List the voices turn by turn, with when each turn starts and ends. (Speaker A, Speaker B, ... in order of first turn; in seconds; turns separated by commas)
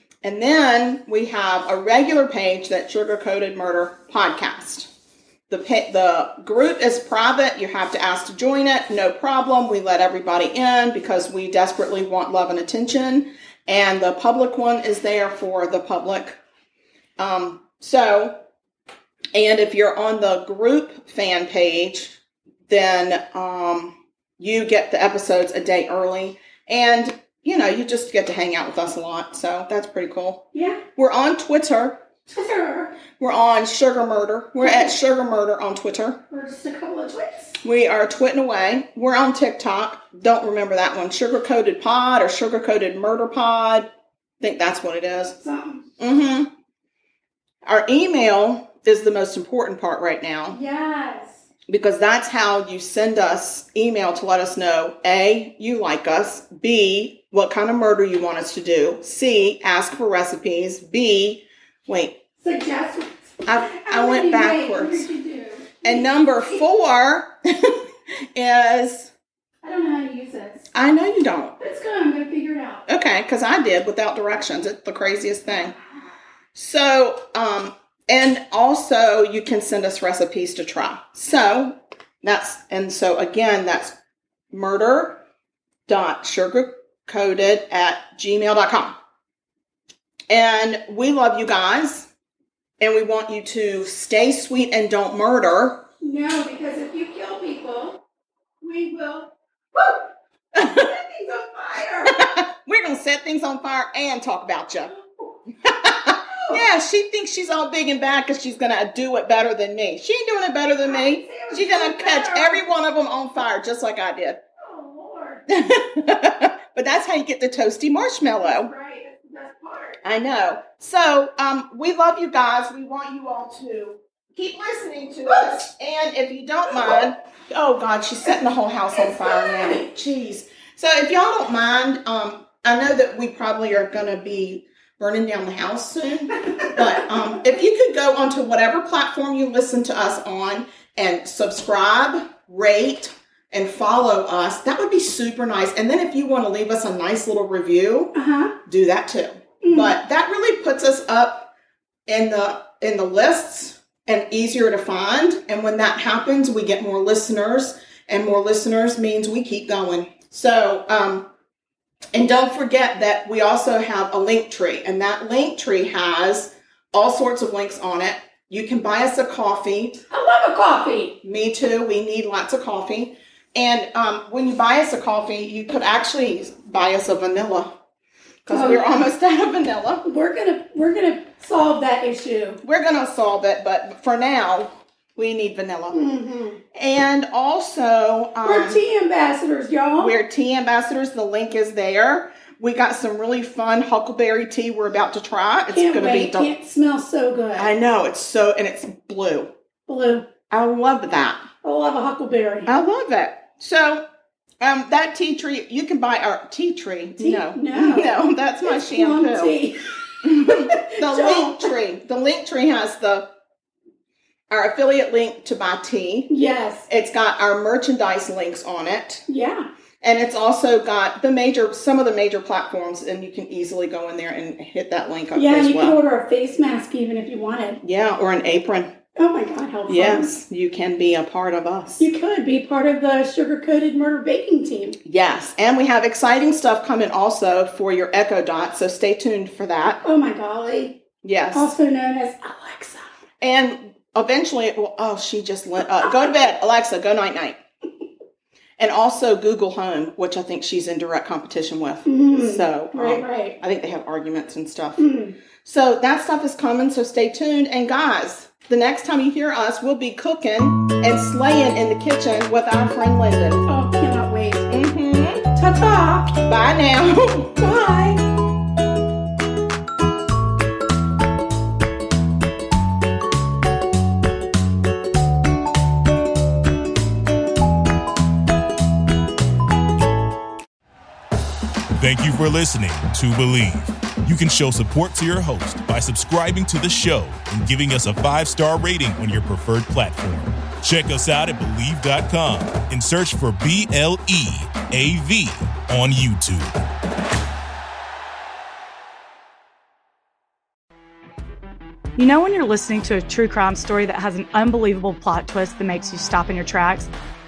Speaker A: 0.2-4.9, Speaker A: 5.5-16.4, Speaker A: 17.2-18.4, Speaker A: 19.3-22.2, Speaker A: 22.7-32.0, Speaker B: 30.5-30.8, Speaker B: 32.3-33.0, Speaker A: 33.2-36.2, Speaker B: 34.6-34.9, Speaker B: 36.3-37.6, Speaker A: 37.6-43.9, Speaker A: 44.4-45.4, Speaker B: 45.3-45.9, Speaker A: 46.0-46.5, Speaker A: 47.6-50.6, Speaker B: 50.5-51.5, Speaker A: 51.7-62.2, Speaker B: 62.4-66.1, Speaker A: 63.5-65.1, Speaker A: 65.8-69.1, Speaker B: 69.6-70.7, Speaker A: 70.7-71.6, Speaker B: 71.6-72.8, Speaker A: 72.9-75.8, Speaker A: 76.5-84.0, Speaker A: 84.5-85.2, Speaker A: 85.9-88.9, Speaker A: 90.3-92.1, Speaker A: 92.8-95.8, Speaker B: 96.0-98.0, Speaker B: 98.6-102.3, Speaker A: 100.5-100.9, Speaker A: 102.1-104.9, Speaker B: 104.9-105.4, Speaker A: 105.7-114.4, Speaker B: 106.1-106.6, Speaker B: 110.8-112.7, Speaker B: 114.6-115.5, Speaker A: 115.5-118.7, Speaker B: 118.4-120.0, Speaker A: 120.0-148.1, Speaker B: 129.1-129.8, Speaker B: 148.1-148.6, Speaker A: 148.7-151.5, Speaker B: 149.6-150.0, Speaker A: 152.1-161.3, Speaker A: 162.1-170.0, Speaker B: 170.1-171.2, Speaker A: 171.2-177.8, Speaker A: 178.4-180.1, Speaker B: 178.5-178.8, Speaker B: 180.1-182.6, Speaker A: 182.6-186.0, Speaker B: 185.9-186.6, Speaker A: 186.7-188.8, Speaker B: 188.4-190.2, Speaker A: 190.0-196.5, Speaker B: 195.7-197.7, Speaker A: 197.6-199.5, Speaker B: 199.9-200.3, Speaker A: 200.5-201.4, Speaker B: 201.6-202.7, Speaker A: 202.7-204.0, Speaker A: 204.6-209.6, Speaker B: 207.2-211.7, Speaker A: 210.2-213.3, Speaker A: 214.5-216.3, Speaker B: 216.3-216.9, Speaker A: 216.9-219.2, Speaker B: 219.3-219.7, Speaker A: 220.0-226.0, Speaker B: 225.3-227.8, Speaker A: 227.8-228.9, Speaker B: 229.2-230.3, Speaker A: 229.9-232.1, Speaker B: 232.0-235.0, Speaker A: 235.1-240.0, Speaker B: 240.0-241.0, Speaker A: 241.2-241.7, Speaker B: 241.5-243.1, Speaker A: 243.4-247.6, Speaker A: 248.8-255.1, Speaker B: 252.1-253.6, Speaker B: 255.0-255.3, Speaker A: 255.6-263.6, Speaker B: 263.7-264.9, Speaker A: 264.7-265.5, Speaker B: 265.5-266.4, Speaker A: 266.4-267.6, Speaker B: 267.6-268.2, Speaker C: 281.9-296.9, Speaker D: 302.2-307.1